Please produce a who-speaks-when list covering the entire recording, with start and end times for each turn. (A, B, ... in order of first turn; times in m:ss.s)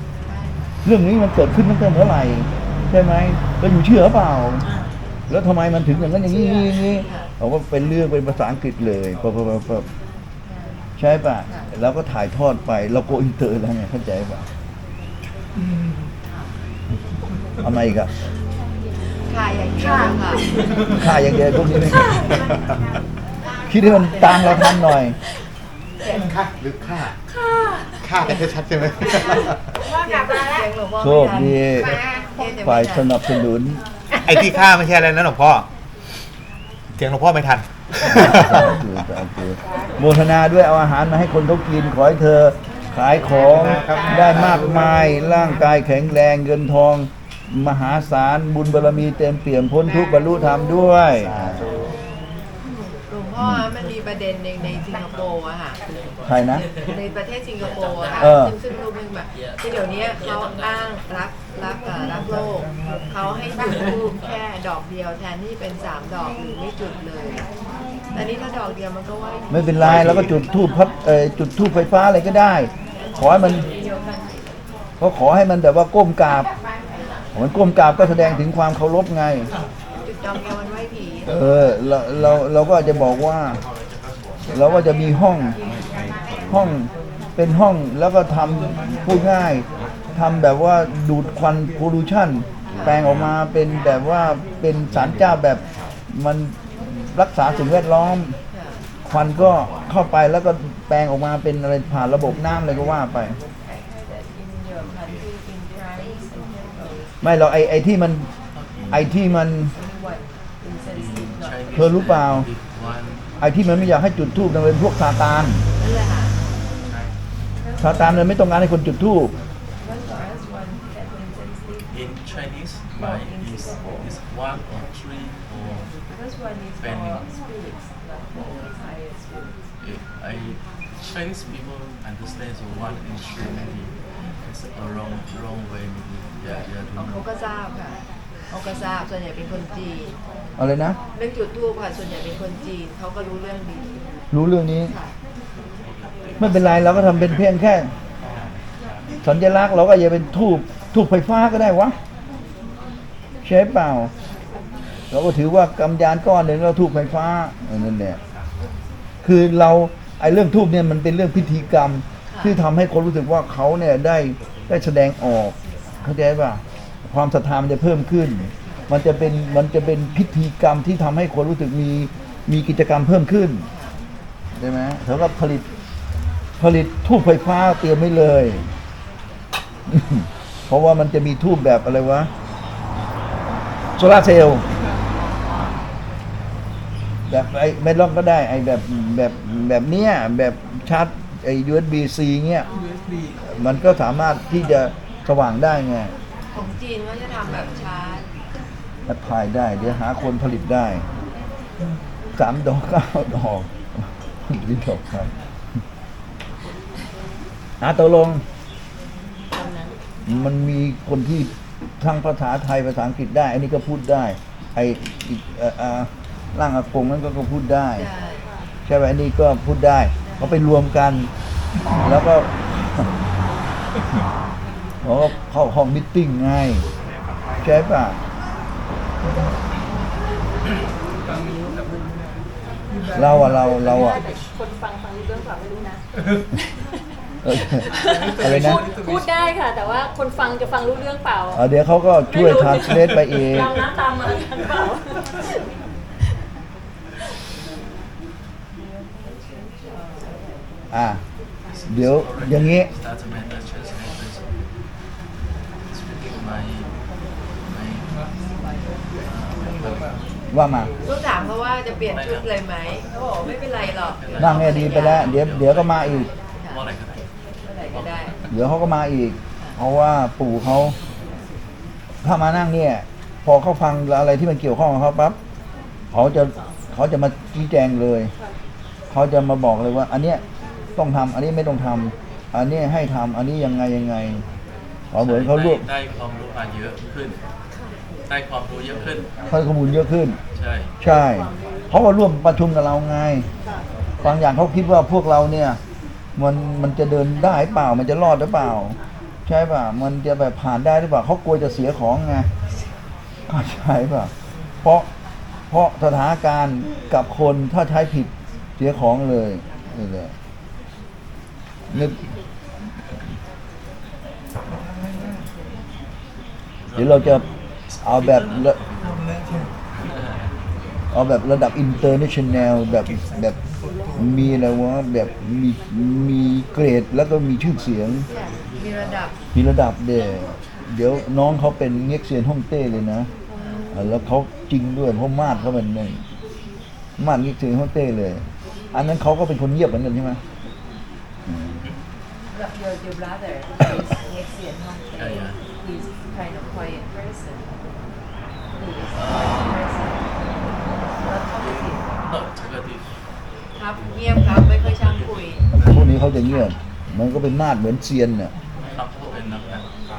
0:00.2-0:00.6 A
0:00.8-0:04.7 B
0:05.3-0:09.9 B
0:07.0-0:07.3 A
0:10.5-0:10.8 A
0:11.0-0:14.5 B
0:17.6-0:18.1 B
0:19.3-0:20.5 A
0:20.9-0:22.3 B
0:23.7-0:24.7 A
0:23.7-0:25.2 B
0:26.1-0:27.2 C
0:28.0-0:29.7 C
0:29.1-0:33.1 A
0:30.0-0:30.7 D
0:31.0-0:33.8 B
0:34.2-0:35.7 C
0:37.0-0:38.8 C
0:38.1-0:51.6 B
0:43.3-0:45.1 C
0:43.9-0:44.6 A
0:51.0-0:52.0 C
0:53.1-0:55.8 A
0:53.4-0:53.7 B
0:56.3-0:56.7 B
0:56.7-1:07.5 A
0:58.2-0:58.6 B
1:08.1-1:10.0 A
1:09.5-1:13.7 B
1:09.8-1:10.4 C
1:13.0-1:14.5 A
1:15.0-1:16.5 B
1:17.3-1:19.5 B
1:20.0-1:21.4 A
1:21.3-1:23.6 B
1:24.5-1:25.6 B
1:26.5-1:38.4 B
1:38.5-1:38.8 A
1:39.1-1:43.4 B
1:47.2-1:48.3 B
1:48.5-1:49.1 E
1:48.9-1:49.7 B
1:50.9-1:53.3 E
1:51.7-1:52.5 B
1:53.4-1:55.6 B
1:55.8-1:56.4 A
1:57.8-1:59.4 B
2:01.9-2:05.9 E
2:06.8-2:07.2 E
2:09.8-2:17.2 E
2:16.5-2:18.0 A
2:18.5-2:20.2 A
2:20.6-2:21.0 B
2:21.1-2:24.1 A
2:24.3-2:24.9 B
2:24.9-2:25.1 A
2:25.8-2:27.2 E
2:26.4-2:27.9 B
2:29.2-2:32.0 B
2:33.4-2:34.1 B
2:35.1-2:38.2 B
2:39.2-2:53.7 B
2:42.3-2:42.6 A
2:54.6-2:55.7 B
2:56.6-2:58.7 B
2:59.9-3:02.3 B
3:04.0-3:04.6 B
3:07.3-3:12.7 B
3:13.5-3:16.1 B
3:16.5-3:18.3 A
3:19.1-3:21.0 B
3:22.4-3:23.7 B
3:24.5-3:25.3 B
3:27.8-3:28.4 B
3:29.5-3:30.0 A
3:30.3-3:38.1 B
3:38.0-3:38.5 A
3:38.9-3:41.3 B
3:42.0-3:43.0 B
3:45.0-3:46.8 B
3:47.6-3:48.2 B
3:53.2-3:54.2 B
3:53.8-3:56.9 D
3:57.4-3:58.8 B
3:57.8-4:01.6 D
4:01.5-4:03.8 B
4:02.3-4:05.7 D
4:10.9-4:11.2 B
4:11.7-4:14.5 E
4:11.9-4:12.9 B
4:15.9-4:16.9 E
4:17.7-4:18.2 E
4:19.2-4:20.2 E
4:20.5-4:20.9 B
4:21.0-4:25.3 A
4:22.1-4:22.7 E
4:23.8-4:27.3 E
4:24.4-4:26.3 B
4:27.7-4:28.4 A
4:27.8-4:28.5 E
4:28.5-4:31.0 B
4:32.2-4:35.4 B
4:36.1-4:38.3 B
4:39.1-4:40.4 B
4:41.0-4:44.4 B
4:45.1-4:45.8 B
4:45.2-4:47.4 E
4:48.3-4:49.3 E
4:49.5-4:50.4 B
4:50.5-4:51.0 E
4:51.0-4:53.5 B
4:54.2-4:55.8 B
4:56.4-5:02.5 B
5:03.5-5:04.3 B
5:05.7-5:10.3 B
5:11.9-5:12.2 B
5:16.9-5:19.2 E
5:17.0-5:17.5 B
5:18.0-5:18.8 B
5:20.0-5:20.5 E
5:21.1-5:23.6 B
5:24.1-5:28.3 B
5:28.3-5:29.4 A
5:29.5-5:33.3 B
5:33.6-5:33.9 A
5:33.9-5:36.2 B
5:37.2-5:40.4 B
5:41.5-5:41.8 B
5:43.6-5:43.9 A
5:45.1-5:45.6 E
5:49.1-5:49.8 E
5:51.5-5:53.1 E
5:53.8-5:55.6 A
5:55.8-5:58.5 B
5:58.8-5:59.9 E